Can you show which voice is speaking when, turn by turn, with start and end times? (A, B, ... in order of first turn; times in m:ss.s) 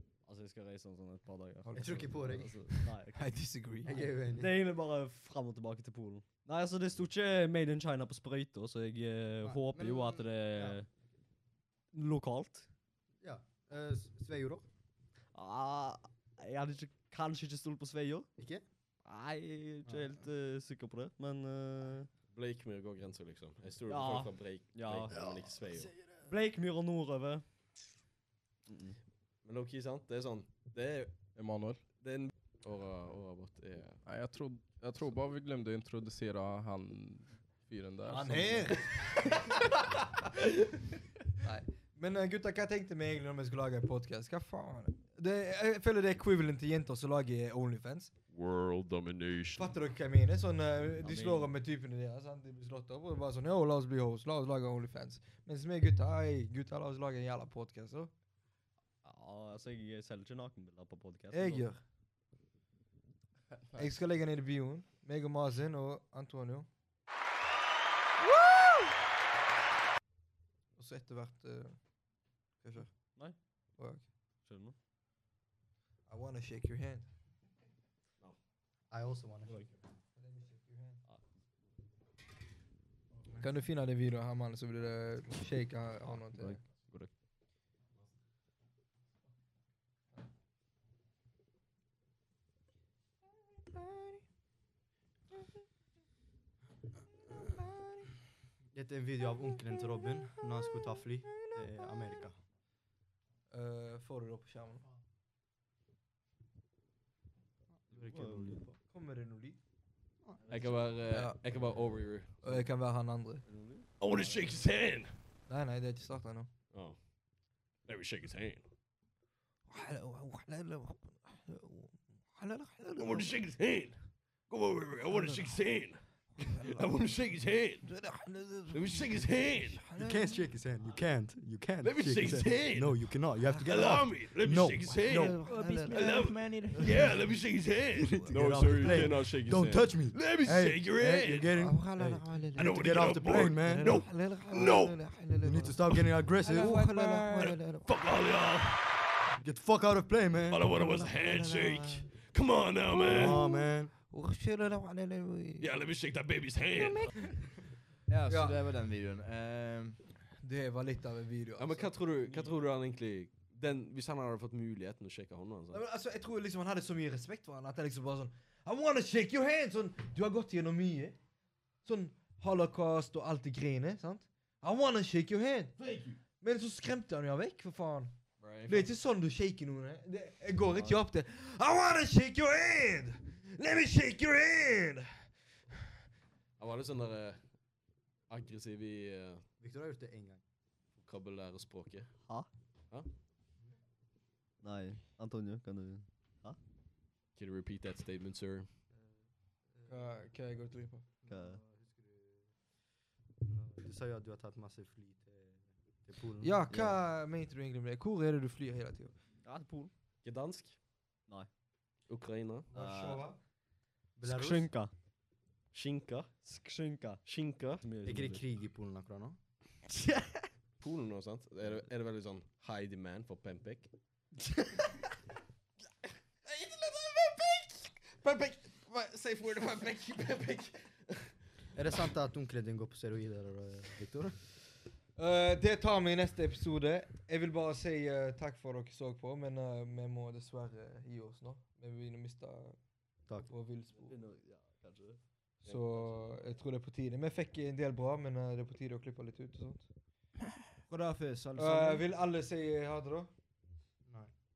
0:00.2-0:03.2 A
0:01.7-0:02.0 B
0:01.7-0:02.6 C
0:03.1-0:04.0 B
0:03.8-0:04.6 C
0:04.2-0:10.9 A
0:09.4-0:10.8 C
0:11.9-0:12.7 A
0:13.2-0:14.6 C
0:15.3-0:18.3 A
0:18.4-0:18.6 C
0:19.0-0:22.1 A
0:19.8-0:20.2 C
0:22.3-0:25.9 D
0:23.9-0:25.2 A
0:25.1-0:26.3 C
0:26.2-0:27.4 A
0:28.7-0:29.0 A
0:29.4-0:31.1 D
0:31.4-0:31.8 E
0:32.0-0:34.0 D
0:34.0-0:38.8 E
0:38.0-0:39.5 B
0:41.4-0:48.1 B
0:48.3-0:49.8 D
0:49.6-0:58.1 B
0:51.0-0:51.5 A
0:59.0-1:01.7 A
1:01.3-1:01.8 B
1:03.7-1:06.7 B
1:10.8-1:11.8 B
1:12.6-1:13.2 B
1:13.8-1:14.1 B
1:14.4-1:14.8 A
1:16.1-1:17.1 B
1:18.9-1:19.7 C
1:20.2-1:21.0 B
1:23.3-1:26.6 B
1:26.0-1:27.1 A
1:33.6-1:34.2 B
1:37.4-1:37.9 B
1:38.7-1:42.4 C
1:43.5-1:44.9 B
1:47.9-1:48.8 C
1:47.9-1:48.6 A
1:48.9-1:49.6 B
1:50.4-1:50.9 A
1:50.5-1:52.7 D
1:51.1-1:51.4 B
1:52.4-1:53.4 B
1:53.4-1:54.5 A
1:54.0-1:55.2 D
1:55.5-1:56.5 B
1:56.7-1:57.0 D
1:57.8-1:58.6 D
1:59.7-2:03.4 B
2:03.0-2:07.9 D
2:05.0-2:05.6 B
2:06.4-2:07.0 B
2:07.8-2:10.4 B
2:08.7-2:09.8 D
2:09.9-2:15.4 C
2:11.8-2:21.5 D
2:13.4-2:14.1 B
2:14.9-2:16.2 B
2:15.4-2:17.4 F
2:18.0-2:24.0 C
2:18.0-2:19.1 B
2:21.5-2:22.8 B
2:22.5-2:25.2 D
2:23.6-2:25.8 B
2:25.4-2:26.8 C
2:26.4-2:27.9 B
2:27.2-2:29.0 D
2:29.4-2:30.7 C
2:30.5-2:33.4 D
2:30.7-2:32.1 B
2:33.1-2:33.9 C
2:33.1-2:35.7 B
2:35.6-2:37.3 D
2:38.1-2:40.0 F
2:38.3-2:38.7 B
2:40.3-2:42.2 B
2:41.6-2:45.8 D
2:45.7-2:51.2 B
2:51.8-2:55.7 B
2:55.8-2:56.2 D
2:56.4-2:58.1 B
2:58.4-2:58.9 D
2:58.6-3:05.2 B
3:00.7-3:01.0 A
3:06.6-3:07.4 D
3:08.3-3:09.4 D
3:09.6-3:10.4 C
3:11.0-3:12.1 D
3:14.6-3:16.6 A
3:17.4-3:18.7 D
3:19.9-3:21.1 B
3:21.2-3:22.4 C
3:21.2-3:21.6 A
3:23.4-3:26.6 C
3:26.4-3:29.1 B
3:26.7-3:27.0 A
3:29.4-3:29.9 A
3:30.2-3:30.8 D
3:32.1-3:32.7 D
3:32.7-3:33.4 B
3:32.7-3:33.3 A
3:34.2-3:34.7 C
3:34.2-3:34.9 A
3:35.7-3:36.3 D
3:36.4-3:37.2 A
3:37.2-3:37.8 D
3:37.8-3:38.4 A
3:38.0-3:39.4 C
3:40.8-3:43.9 D
3:46.4-3:51.1 D
3:51.7-3:54.4 C
3:55.2-4:02.8 B
4:03.3-4:04.2 B
4:04.0-4:05.2 A
4:05.6-4:06.1 D
4:05.6-4:09.9 B
4:10.9-4:12.1 F
4:11.5-4:13.3 B
4:14.0-4:14.3 C